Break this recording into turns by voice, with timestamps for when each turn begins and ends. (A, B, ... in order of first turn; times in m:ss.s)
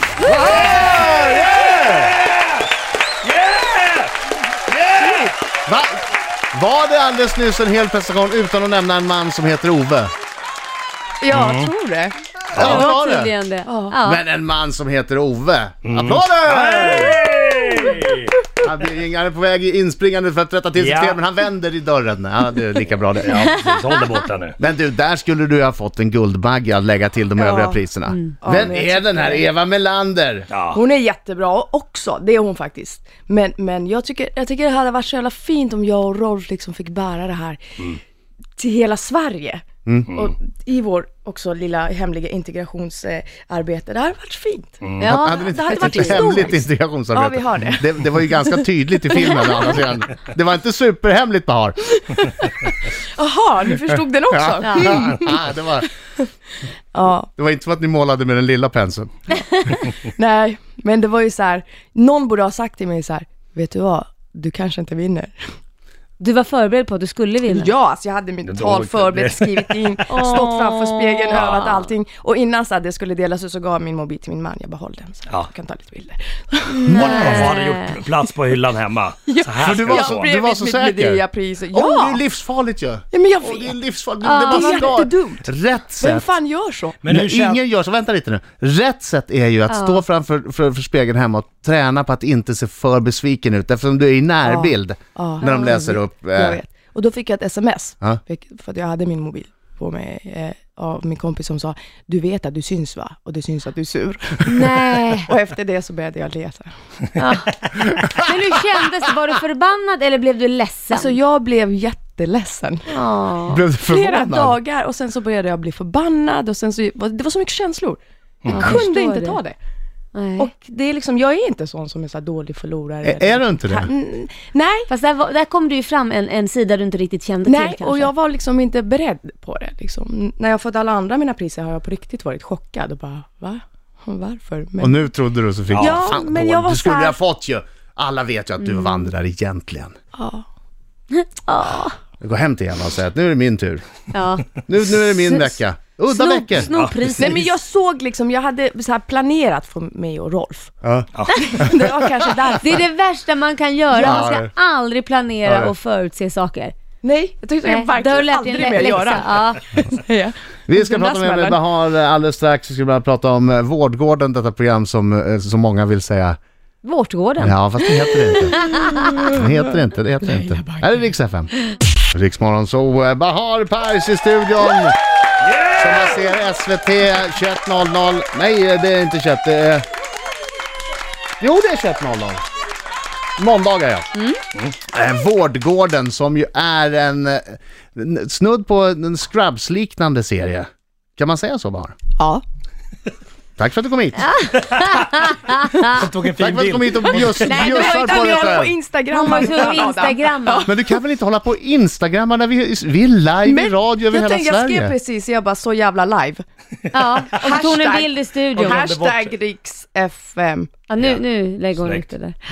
0:00.2-0:01.9 A
0:00.5-0:02.5 B
0:03.2-0:04.1 B
0:04.7-0:05.2 B
0:05.0-0:05.3 C
0:05.6-0:06.0 A
0:06.5-0:10.1 A
0:11.2-0:12.1 C
0:11.3-0:11.7 B
0:12.5-0:12.8 B
0:12.5-0:13.3 A
0:12.6-0:14.2 D
0:13.6-0:14.0 C
0:14.0-0:17.3 A
0:15.8-0:18.4 B
0:18.6-0:23.5 A
0:20.7-0:21.2 B
0:23.2-0:24.6 B
0:23.6-0:24.0 D
0:24.6-0:30.5 A
0:27.4-0:27.8 C
0:28.4-0:29.5 C
0:30.5-0:30.8 B
0:30.7-0:37.6 C
0:38.6-0:49.8 C
0:39.8-0:40.1 A
0:44.8-0:45.1 B
0:45.0-0:46.2 D
0:45.0-0:51.9 A
0:52.1-0:55.4 C
0:54.3-0:55.9 A
0:54.6-0:55.0 D
0:56.9-0:57.3 C
0:57.4-0:59.1 A
0:59.7-1:05.4 C
1:06.2-1:07.7 D
1:07.4-1:17.4 C
1:08.4-1:10.0 B
1:10.1-1:11.7 D
1:11.3-1:11.7 B
1:16.7-1:18.0 D
1:16.9-1:20.3 B
1:19.3-1:22.2 C
1:19.6-1:26.2 A
1:23.1-1:23.8 C
1:24.2-1:25.0 D
1:24.4-1:25.5 C
1:26.0-1:27.2 C
1:27.0-1:27.6 B
1:27.0-1:36.6 A
1:29.7-1:30.0 D
1:34.4-1:46.7 C
1:44.4-1:45.3 D
1:47.2-1:51.1 D
1:50.9-1:53.0 C
1:52.9-1:53.6 D
1:53.5-1:54.6 A
1:53.8-1:58.0 C
1:58.4-1:58.8 B
1:58.5-1:59.4 D
1:58.5-1:59.6 C
2:00.1-2:00.5 D
2:00.4-2:04.9 C
2:03.0-2:03.9 A
2:04.9-2:08.1 D
2:07.4-2:15.0 C
2:14.8-2:19.9 A
2:15.7-2:16.0 B
2:15.8-2:17.2 C
2:18.6-2:19.0 D
2:20.1-2:20.4 C
2:21.2-2:21.9 D
2:22.2-2:23.8 A
2:24.1-2:25.6 D
2:24.6-2:26.7 A
2:26.1-2:27.4 D
2:26.6-2:27.0 B
2:27.2-2:30.7 C
2:30.8-2:31.1 A
2:31.3-2:32.8 C
2:32.6-2:36.8 D
2:33.9-2:34.3 C
2:33.9-2:34.5 A
2:35.4-2:35.7 A
2:37.0-2:41.6 C
2:37.6-2:39.7 D
2:40.7-2:46.4 A
2:46.8-2:47.6 D
2:47.4-2:51.5 A
2:48.2-2:49.3 D
2:48.8-2:49.5 C
2:50.2-2:51.0 C
2:52.1-2:54.9 A
2:55.4-2:56.1 B
2:55.7-2:59.8 A
3:01.4-3:02.4 A
3:03.4-3:04.1 A
3:04.9-3:11.9 A
3:13.6-3:14.3 A
3:14.2-3:15.9 D
3:15.8-3:17.9 B
3:16.4-3:18.7 A
3:17.4-3:20.7 D
3:17.5-3:21.0 C
3:20.6-3:24.9 A
3:23.4-3:26.4 C
3:26.9-3:28.8 D
3:27.2-3:30.8 C
3:28.6-3:29.3 B
3:30.9-3:32.4 D
3:31.8-3:32.1 B